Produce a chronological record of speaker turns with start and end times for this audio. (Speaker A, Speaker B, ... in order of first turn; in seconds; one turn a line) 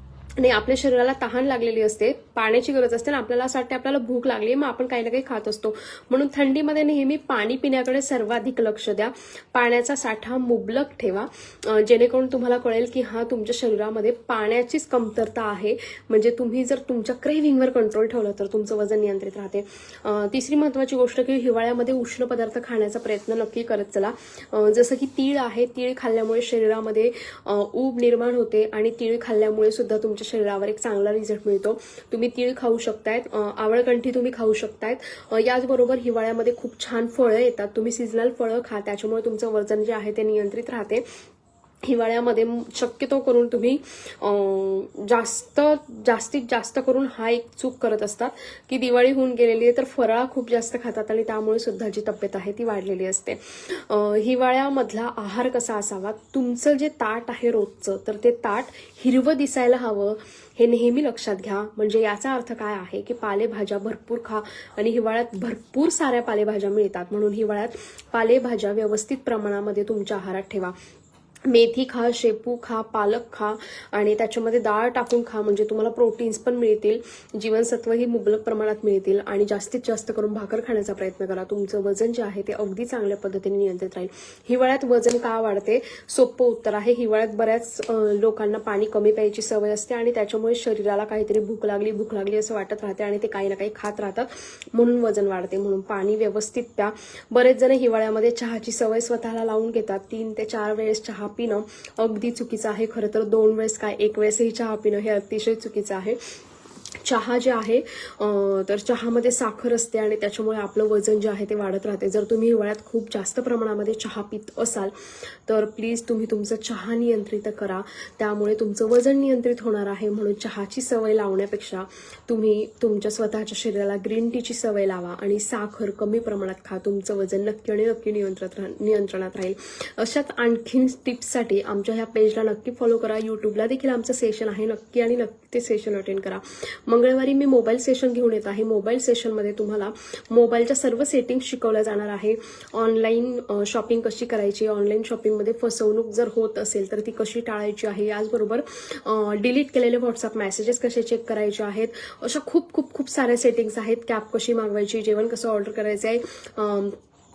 Speaker A: 0.4-41.0
Speaker A: 41.8-70.7
Speaker A: 71.5-106.2
Speaker A: 107.0-114.9
Speaker A: 115.5-157.0